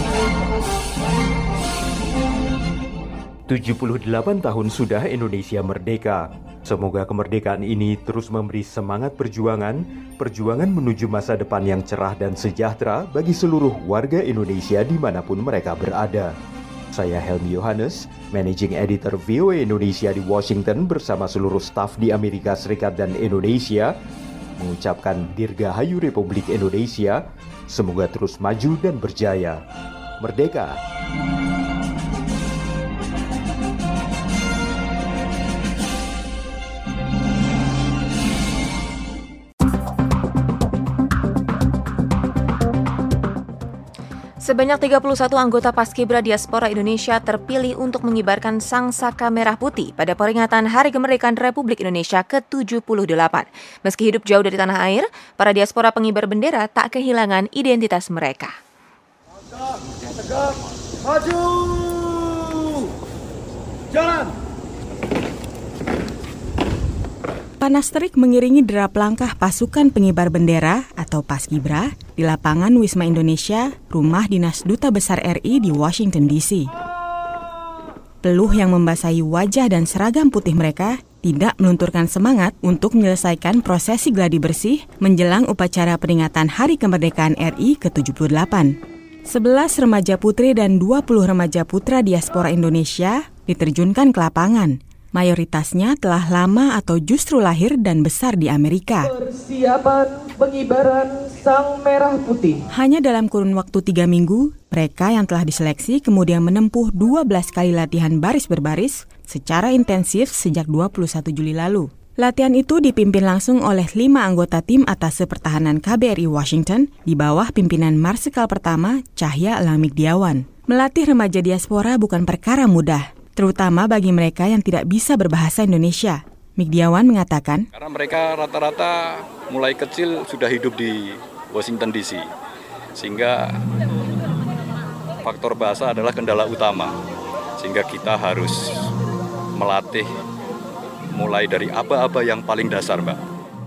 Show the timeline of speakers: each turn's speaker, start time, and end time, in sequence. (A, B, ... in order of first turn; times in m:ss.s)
0:03.5-0:16.3 A
0:16.9-0:23.9 A
0:24.6-0:29.6 A
0:30.2-0:30.8 A
0:44.4-0:58.6 B
1:07.6-1:16.7 C
1:18.2-1:28.8 C
1:29.3-1:39.1 C
1:39.2-1:42.6 D
1:42.7-2:07.6 C
2:07.7-2:12.3 E
2:13.0-2:13.5 E
2:15.2-2:17.0 E
2:17.6-2:18.9 E
2:19.5-2:20.1 E
2:21.1-2:23.2 E